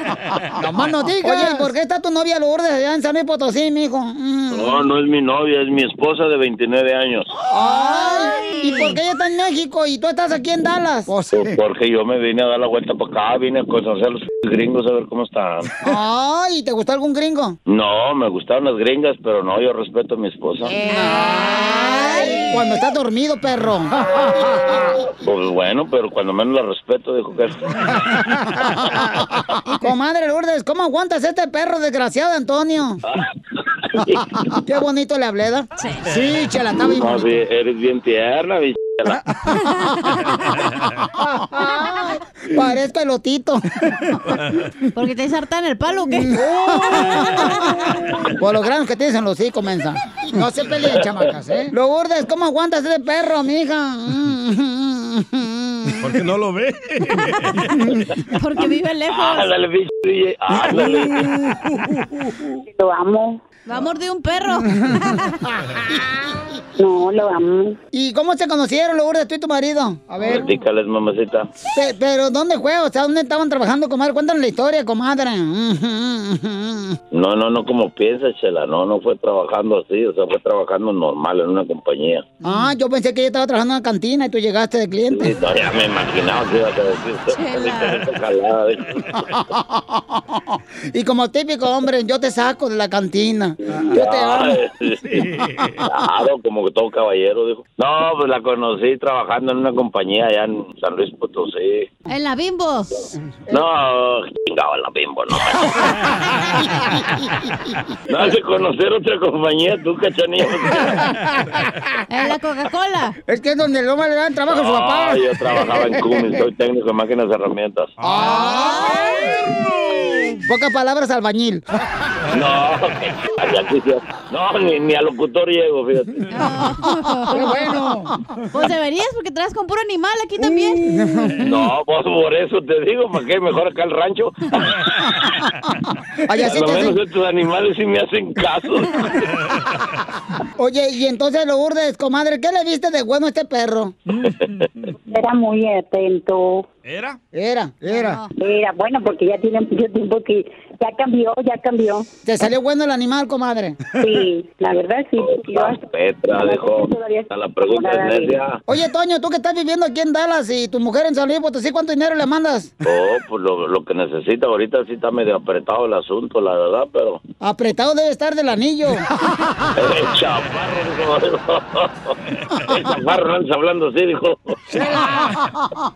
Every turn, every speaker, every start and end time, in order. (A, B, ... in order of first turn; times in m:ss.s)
0:00.6-0:04.8 A
0:04.5-0:07.3 B
0:07.5-0:11.6 A
0:07.8-0:08.7 C
0:11.3-0:15.8 B
0:15.8-0:17.6 A
0:17.7-0:20.8 B
0:20.6-0:24.9 A
0:20.9-0:22.6 C
0:25.2-0:28.1 B
0:28.3-0:29.1 A
0:29.8-0:33.0 A
0:33.9-0:34.4 B
0:34.6-0:37.3 A
0:35.8-0:36.2 C
0:36.8-0:39.2 B
0:39.5-0:40.3 C
0:41.2-0:43.6 A
0:44.9-0:48.0 C
0:46.3-0:47.6 A
0:46.4-0:47.5 D
0:48.4-0:56.0 A
0:56.0-0:57.8 D
0:58.3-0:59.5 C
0:59.1-1:01.3 B
1:02.7-1:03.4 E
1:03.7-1:05.4 C
1:06.8-1:07.8 E
1:07.9-1:10.5 A
1:10.2-1:11.5 B
1:11.7-1:17.0 A
1:17.1-1:22.2 B
1:22.4-1:25.4 A
1:25.1-1:29.3 B
1:27.3-1:28.1 C
1:29.6-1:34.6 A
1:33.8-1:35.2 B
1:35.0-1:35.9 D
1:35.8-1:41.9 B
1:42.1-1:42.9 C
1:43.5-1:46.0 B
1:48.1-1:51.1 B
1:52.1-1:53.2 C
1:53.3-1:56.2 A
1:54.5-1:57.9 B
1:58.0-2:00.4 D
1:58.0-1:59.3 A
1:58.3-1:59.3 C
2:00.4-2:01.6 A
2:02.3-2:06.3 B
2:06.3-2:07.8 C
2:07.3-2:08.1 A
2:08.5-2:10.8 C
2:10.7-2:11.5 A
2:11.4-2:15.2 B
2:16.3-2:17.0 A
2:16.4-2:19.4 B
2:20.6-2:24.0 A
2:25.1-2:26.7 E
2:26.8-2:27.2 D
2:27.3-2:28.2 A
2:27.9-2:28.3 C
2:28.4-2:32.1 E
2:32.3-2:33.8 A
2:34.0-2:38.4 E
2:35.2-2:38.6 B
2:38.7-2:42.7 A
2:42.8-2:47.2 B
2:47.4-2:49.1 A
2:49.7-2:54.6 B
2:54.7-2:55.5 A